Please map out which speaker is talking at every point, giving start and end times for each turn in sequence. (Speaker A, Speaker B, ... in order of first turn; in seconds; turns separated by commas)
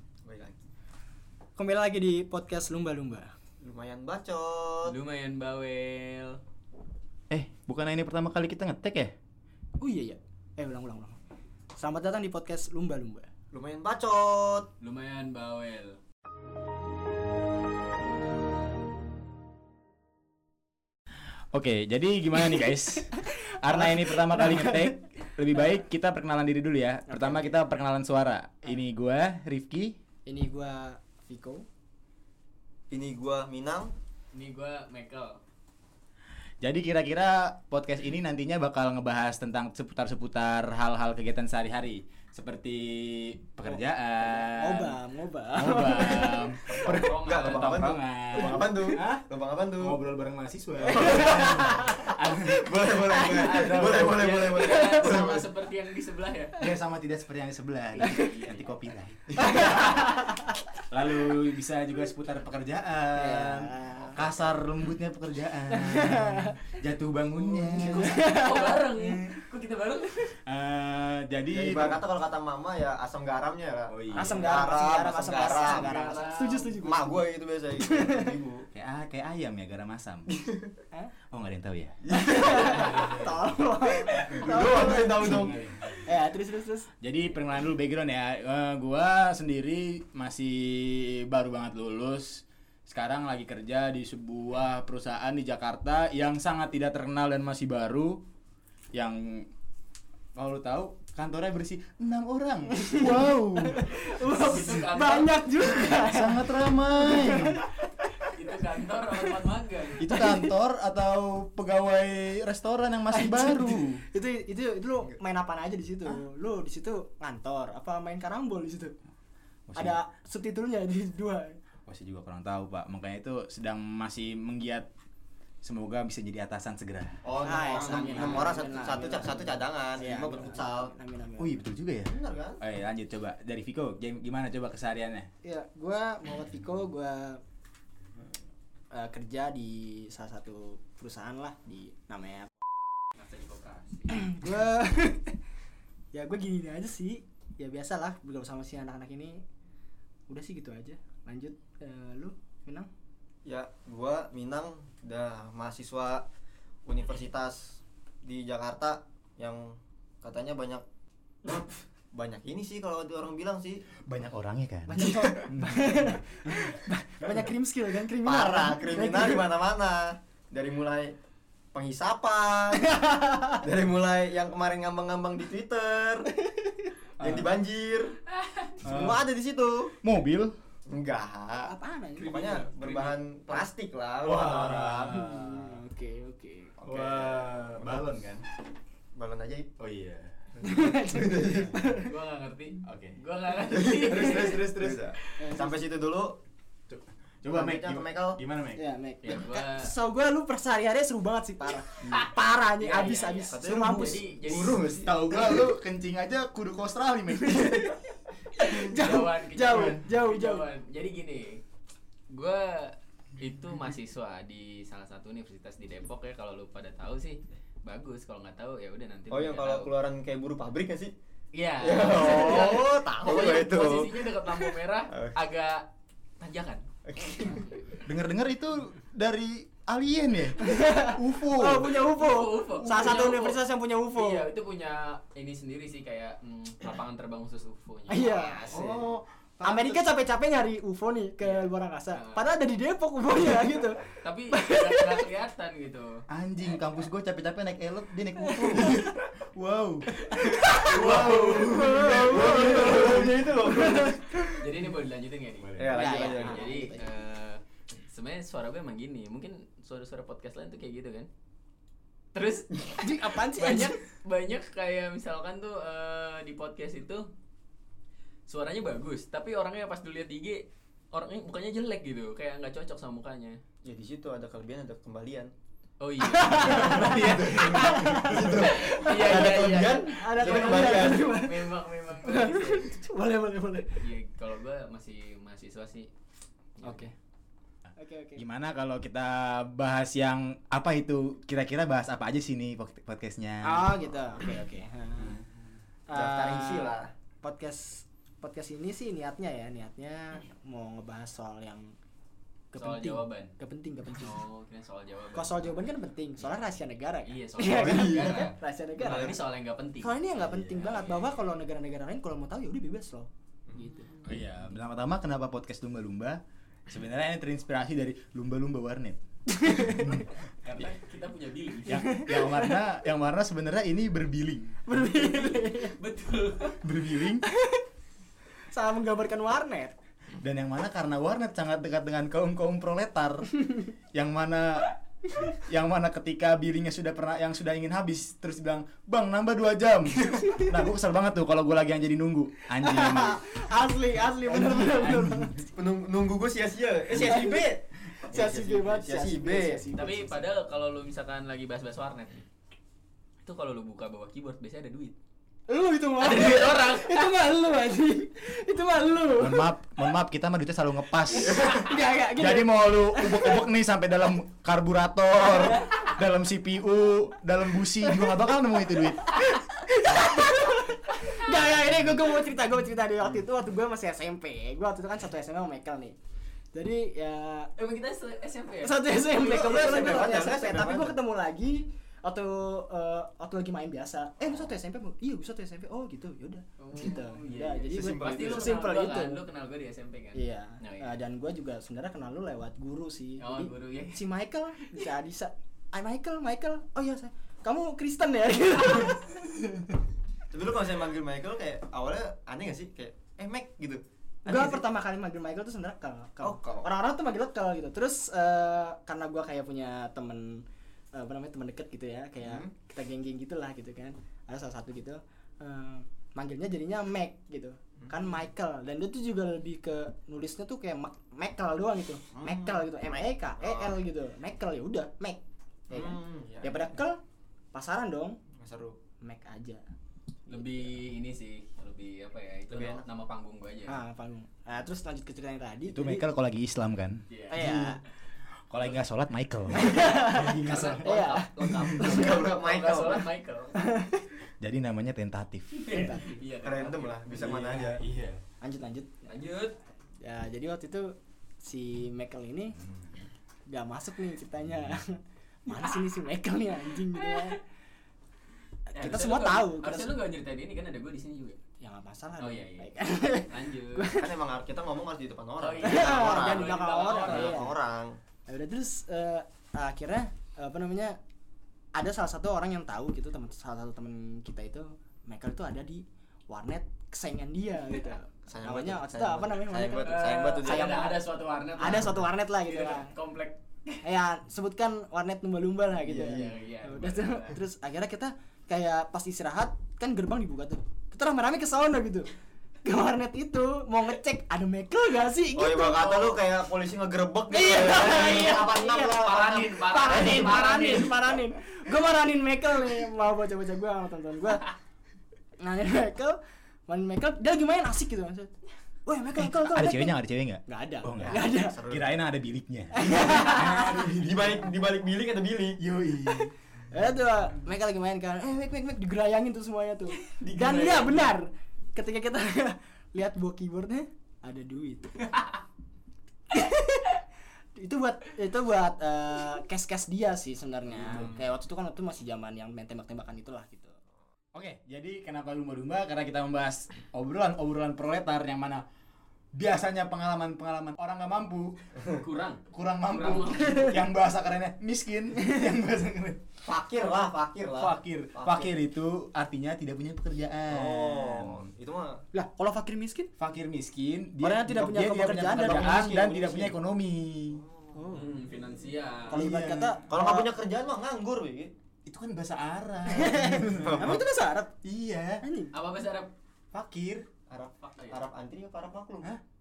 Speaker A: 0.2-0.5, Speaker B: 1.6-3.3, Speaker A: 3.6-5.0, Speaker C: 4.9-6.4, Speaker D: 7.3-9.1, Speaker B: 9.8-11.2, Speaker B: 11.8-13.3, Speaker A: 13.5-14.7, Speaker C: 14.8-16.0, Speaker D: 21.5-30.0, Speaker B: 23.7-24.9, Speaker B: 27.1-27.6, Speaker B: 30.3-31.7, Speaker A: 32.9-33.9, Speaker C: 34.3-35.4, Speaker D: 36.6-45.0, Speaker B: 44.4-46.6, Speaker D: 45.5-49.3, Speaker C: 46.7-48.0, Speaker A: 46.8-50.0, Speaker D: 49.8-54.4, Speaker B: 50.9-52.1, Speaker A: 50.9-55.5, Speaker C: 53.5-56.6, Speaker B: 54.7-55.0, Speaker D: 56.6-60.1, Speaker C: 58.0-58.7, Speaker B: 59.4-60.4, Speaker D: 60.9-68.2, Speaker B: 63.1-64.2, Speaker B: 65.7-66.5, Speaker C: 67.5-70.4, Speaker B: 67.8-68.8, Speaker D: 69.0-69.3, Speaker D: 70.5-72.0, Speaker A: 71.5-78.7, Speaker D: 73.9-74.5, Speaker B: 74.1-77.2, Speaker C: 75.4-76.7, Speaker B: 77.8-78.3, Speaker D: 78.7-80.3, Speaker A: 80.3-80.7, Speaker D: 81.3-82.0, Speaker A: 82.0-83.2, Speaker B: 82.1-86.9, Speaker D: 82.7-83.4, Speaker A: 84.0-85.6, Speaker D: 84.5-86.1, Speaker D: 87.0-98.2, Speaker D: 99.0-99.5, Speaker D: 100.4-104.7, Speaker B: 102.8-108.2, Speaker C: 104.3-105.4, Speaker D: 105.7-107.7, Speaker C: 108.3-110.2, Speaker D: 110.0-114.0, Speaker B: 110.1-110.5, Speaker B: 113.1-119.0, Speaker D: 119.7-120.0, Speaker B: 119.8-121.6, Speaker D: 121.9-124.9, Speaker D: 125.6-127.2, Speaker A: 127.2-130.9, Speaker B: 127.4-131.7, Speaker C: 127.7-128.5, Speaker D: 131.4-135.3, Speaker A: 132.1-132.6, Speaker B: 135.4-137.4, Speaker B: 138.9-142.8, Speaker C: 143.2-144.3, Speaker B: 144.1-145.4, Speaker B: 146.1-149.4, Speaker B: 150.3-152.9, Speaker A: 153.4-156.3, Speaker A: 156.9-160.8, Speaker A: 161.4-163.9, Speaker D: 164.1-166.1, Speaker B: 164.9-169.5, Speaker A: 165.0-165.5, Speaker A: 168.2-171.2, Speaker A: 171.7-173.0, Speaker B: 172.8-173.6, Speaker A: 173.5-176.3, Speaker A: 177.2-178.2, Speaker D: 177.2-177.5, Speaker C: 178.4-178.7, Speaker A: 178.8-179.9, Speaker D: 178.8-179.3, Speaker D: 180.0-180.6, Speaker A: 180.9-181.7, Speaker B: 181.7-182.6, Speaker C: 182.2-183.2, Speaker A: 182.3-185.2, Speaker D: 184.2-185.8, Speaker B: 185.1-186.7, Speaker A: 186.8-188.0, Speaker D: 186.8-188.4, Speaker A: 189.2-189.7, Speaker D: 189.8-190.3, Speaker B: 190.6-192.1, Speaker A: 190.8-191.8, Speaker C: 192.0-194.6, Speaker D: 192.8-193.2, Speaker A: 193.6-196.4, Speaker D: 194.0-195.0, Speaker B: 195.4-195.8, Speaker D: 196.9-198.8, Speaker A: 197.5-198.4, Speaker B: 198.8-204.8, Speaker C: 199.2-199.9, Speaker A: 202.0-202.3, Speaker C: 202.0-204.8, Speaker A: 203.5-205.7, Speaker D: 205.0-208.0, Speaker B: 207.5-208.0, Speaker B: 208.6-210.7, Speaker C: 208.8-211.6, Speaker D: 209.7-210.0, Speaker C: 212.3-219.9, Speaker A: 219.3-221.1, Speaker C: 221.5-225.9, Speaker A: 221.8-224.3, Speaker C: 226.4-226.8, Speaker A: 227.1-227.7, Speaker C: 227.4-228.0, Speaker D: 228.1-231.9, Speaker B: 230.6-234.5, Speaker C: 231.9-239.1, Speaker B: 238.1-238.7, Speaker D: 238.7-240.1, Speaker B: 239.6-245.2, Speaker C: 241.4-242.5, Speaker C: 244.2-246.2, Speaker D: 246.3-250.1, Speaker B: 248.6-249.0, Speaker B: 250.2-254.5, Speaker A: 250.8-254.5, Speaker C: 250.9-252.8, Speaker D: 250.9-251.6, Speaker D: 252.3-253.0, Speaker C: 254.6-261.3, Speaker A: 255.8-256.8, Speaker B: 255.9-257.1, Speaker C: 262.3-267.3, Speaker B: 263.0-264.0, Speaker C: 268.5-273.6, Speaker A: 273.9-275.5, Speaker C: 276.0-283.0, Speaker B: 276.2-284.1, Speaker D: 276.8-278.4, Speaker A: 276.9-281.3, Speaker C: 284.0-286.1, Speaker C: 286.8-287.1, Speaker B: 286.8-287.1, Speaker B: 288.0-288.4, Speaker D: 288.4-293.9, Speaker B: 293.6-295.4, Speaker B: 296.1-301.9, Speaker A: 296.1-297.1, Speaker B: 302.7-304.4, Speaker C: 302.8-303.5, Speaker C: 304.2-305.8, Speaker B: 305.3-309.4, Speaker C: 306.4-306.6, Speaker C: 307.2-310.2, Speaker A: 307.7-309.4, Speaker B: 310.0-314.1, Speaker D: 310.4-311.1, Speaker A: 313.7-314.1, Speaker D: 314.2-320.3, Speaker B: 319.5-320.2, Speaker C: 320.6-322.0, Speaker D: 321.9-324.8, Speaker B: 322.0-322.8, Speaker B: 324.9-326.0, Speaker C: 325.1-326.9, Speaker D: 326.8-327.4, Speaker B: 327.4-327.9, Speaker B: 328.7-329.9, Speaker D: 330.4-333.5, Speaker D: 334.1-343.4, Speaker B: 340.3-340.7, Speaker B: 342.8-345.7, Speaker D: 344.4-345.6, Speaker A: 345.8-349.9, Speaker B: 347.1-347.7, Speaker B: 348.3-350.5, Speaker C: 349.9-352.5, Speaker C: 353.4-355.1, Speaker B: 355.7-359.7, Speaker C: 356.2-357.4, Speaker D: 359.4-369.6, Speaker B: 361.4-363.6, Speaker B: 369.4-376.2, Speaker B: 376.7-377.7, Speaker C: 377.8-380.3, Speaker B: 378.8-389.4, Speaker A: 379.4-381.2, Speaker C: 386.8-391.2, Speaker A: 387.9-388.8, Speaker B: 390.3-399.8, Speaker C: 393.4-394.2, Speaker A: 400.5-404.8, Speaker B: 404.4-410.6, Speaker A: 406.4-406.9, Speaker B: 411.1-427.2, Speaker A: 412.4-412.7, Speaker A: 418.0-418.4, Speaker A: 422.3-422.9, Speaker A: 423.6-424.0, Speaker A: 425.9-426.8, Speaker B: 427.7-428.4, Speaker A: 428.6-429.0, Speaker B: 429.2-429.8, Speaker C: 430.5-434.0, Speaker B: 430.5-430.9, Speaker A: 432.7-433.1, Speaker B: 433.9-436.3, Speaker D: 435.9-437.9, Speaker C: 437.3-437.7, Speaker B: 437.5-438.0, Speaker D: 438.7-441.1, Speaker B: 439.8-442.4, Speaker C: 440.4-444.0, Speaker A: 441.6-443.3, Speaker B: 443.8-444.3, Speaker D: 444.6-446.2, Speaker C: 445.7-447.6, Speaker B: 445.9-446.4, Speaker A: 446.6-448.0, Speaker D: 447.3-448.4, Speaker B: 448.6-449.1, Speaker C: 449.2-449.8, Speaker B: 450.2-452.8, Speaker B: 453.7-457.6, Speaker C: 455.7-456.1, Speaker C: 457.1-457.6, Speaker B: 458.9-460.2, Speaker C: 458.9-461.6, Speaker B: 461.8-464.4, Speaker C: 462.4-464.2, Speaker A: 464.1-468.2, Speaker C: 465.6-467.7, Speaker B: 465.8-467.7, Speaker B: 468.5-471.2, Speaker B: 471.9-481.2, Speaker A: 478.5-481.1, Speaker C: 480.0-484.0, Speaker B: 481.8-483.1, Speaker B: 484.0-492.3, Speaker A: 486.0-486.6, Speaker C: 486.1-487.6, Speaker B: 492.8-496.3, Speaker A: 495.6-501.1, Speaker C: 496.0-496.4, Speaker B: 497.5-504.7, Speaker C: 498.0-501.2, Speaker B: 505.6-508.5, Speaker B: 509.1-511.8, Speaker D: 509.4-514.7, Speaker A: 511.2-512.2, Speaker B: 512.9-514.0, Speaker A: 513.5-515.8, Speaker D: 515.8-516.5, Speaker B: 516.9-525.4, Speaker C: 520.2-521.3, Speaker B: 526.5-527.2, Speaker B: 527.8-534.0, Speaker D: 531.0-531.3, Speaker A: 531.1-531.4, Speaker D: 534.5-538.9, Speaker D: 539.5-541.8, Speaker C: 542.1-544.0, Speaker D: 542.7-546.4, Speaker A: 546.6-548.7, Speaker D: 547.8-551.7, Speaker A: 550.7-552.2, Speaker B: 552.3-553.3, Speaker D: 553.4-557.6, Speaker B: 554.4-556.8, Speaker A: 557.5-558.2, Speaker B: 557.9-558.3, Speaker C: 558.1-559.5, Speaker B: 559.3-560.5, Speaker D: 559.3-560.1, Speaker A: 560.1-561.7, Speaker D: 562.1-564.1, Speaker B: 563.1-564.8, Speaker A: 563.6-564.2, Speaker D: 564.8-565.5, Speaker B: 565.4-565.8, Speaker C: 565.7-566.3, Speaker D: 566.7-567.3, Speaker A: 567.5-569.3, Speaker C: 567.8-568.2